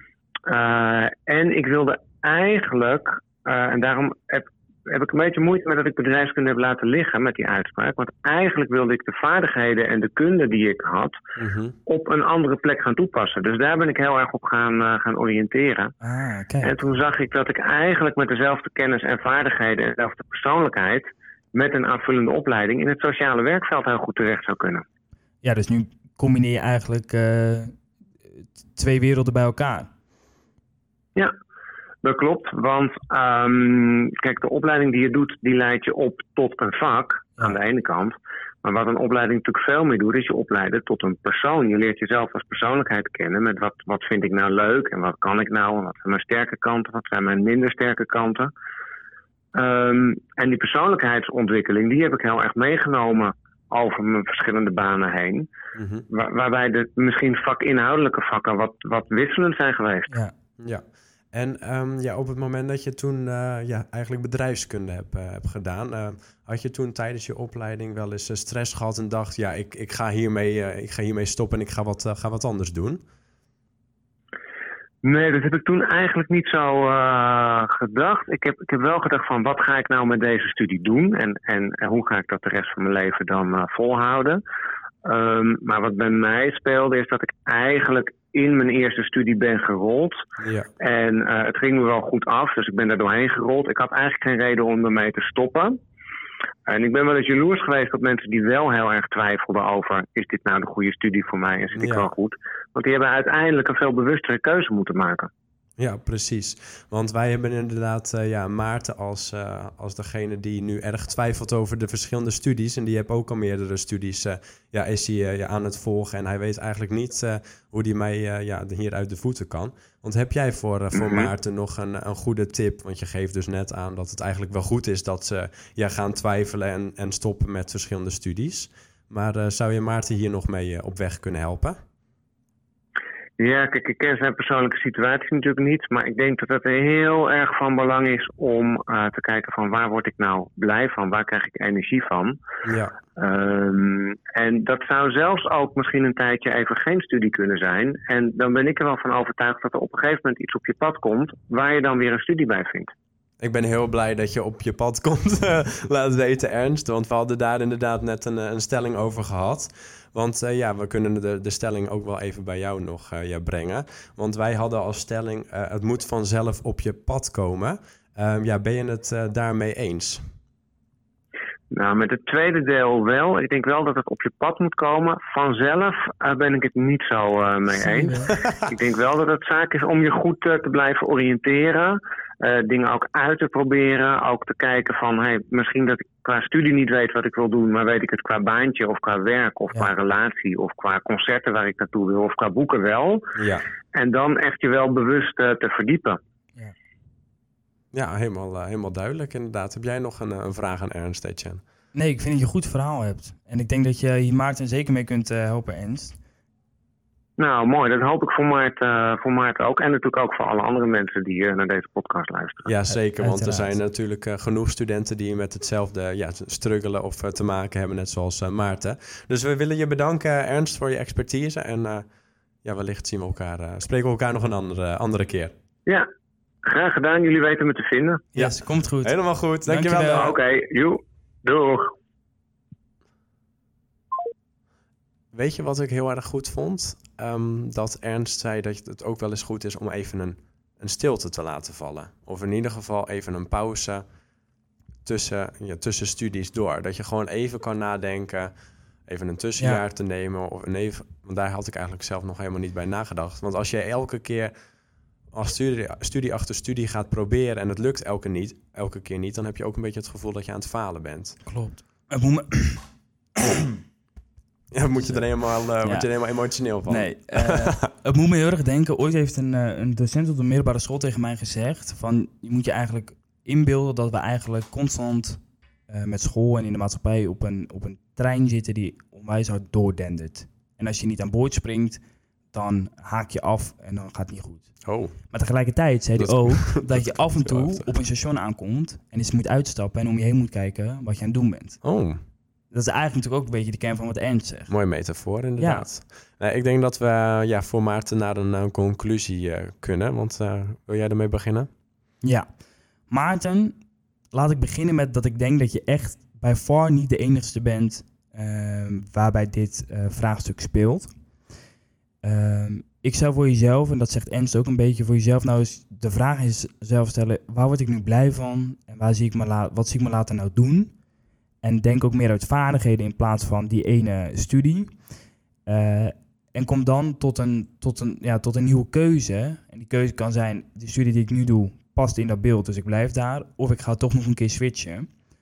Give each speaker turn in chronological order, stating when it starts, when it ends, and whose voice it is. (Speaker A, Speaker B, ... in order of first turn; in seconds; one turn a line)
Speaker A: 0.5-11.2
Speaker B: 11.4-11.8
Speaker A: 11.8-15.9
Speaker C: 16.0-16.7
Speaker A: 16.6-24.8
Speaker C: 25.4-27.8
Speaker C: 28.3-29.9
Speaker A: 32.0-48.5
Speaker A: 49.5-55.5
Speaker B: 55.7-56.0
Speaker A: 56.1-60.1
Speaker B: 60.6-73.0
Speaker A: 75.0-84.4
Speaker A: 85.0-90.2
Speaker B: 90.4-90.7
Speaker A: 90.8-95.8
Speaker A: 96.7-105.3
Speaker B: 101.7-102.1
Speaker B: 105.8-131.8
Speaker A: 121.0-121.3
Speaker A: 133.4-142.4
Speaker B: 142.6-142.9
Speaker A: 143.2-152.9
Speaker B: 153.4-170.2
Speaker A: 171.7-193.3
Speaker C: 177.9-178.3
Speaker B: 178.3-178.7
Speaker B: 193.3-193.7
Speaker A: 193.9-196.2
Speaker B: 197.9-201.6
Speaker C: 201.9-206.2
Speaker A: 207.4-212.7
Speaker B: 212.6-222.0
Speaker C: 213.2-213.8
Speaker B: 222.6-225.5
Speaker A: 226.7-228.2
Speaker C: 228.3-230.3
Speaker B: 228.3-230.3
Speaker A: 230.2-231.9
Speaker B: 235.3-244.0
Speaker B: 245.0-248.5
Speaker B: 249.1-254.5
Speaker B: 255.3-261.4
Speaker C: 261.4-262.8
Speaker B: 264.7-267.9
Speaker C: 265.0-265.2
Speaker C: 265.8-266.1
Speaker C: 266.9-282.0
Speaker C: 282.5-284.7
Speaker B: 284.8-285.1
Speaker C: 285.3-291.8
Speaker B: 286.2-287.9
Speaker B: 291.8-292.2
Speaker C: 292.7-294.7
Speaker B: 294.7-301.7
Speaker C: 295.6-295.9
Speaker C: 302.2-302.5
Speaker C: 303.1-303.8
Speaker C: 304.3-311.1
Speaker C: 312.2-320.9
Speaker C: 321.6-324.9
Speaker C: 325.6-335.1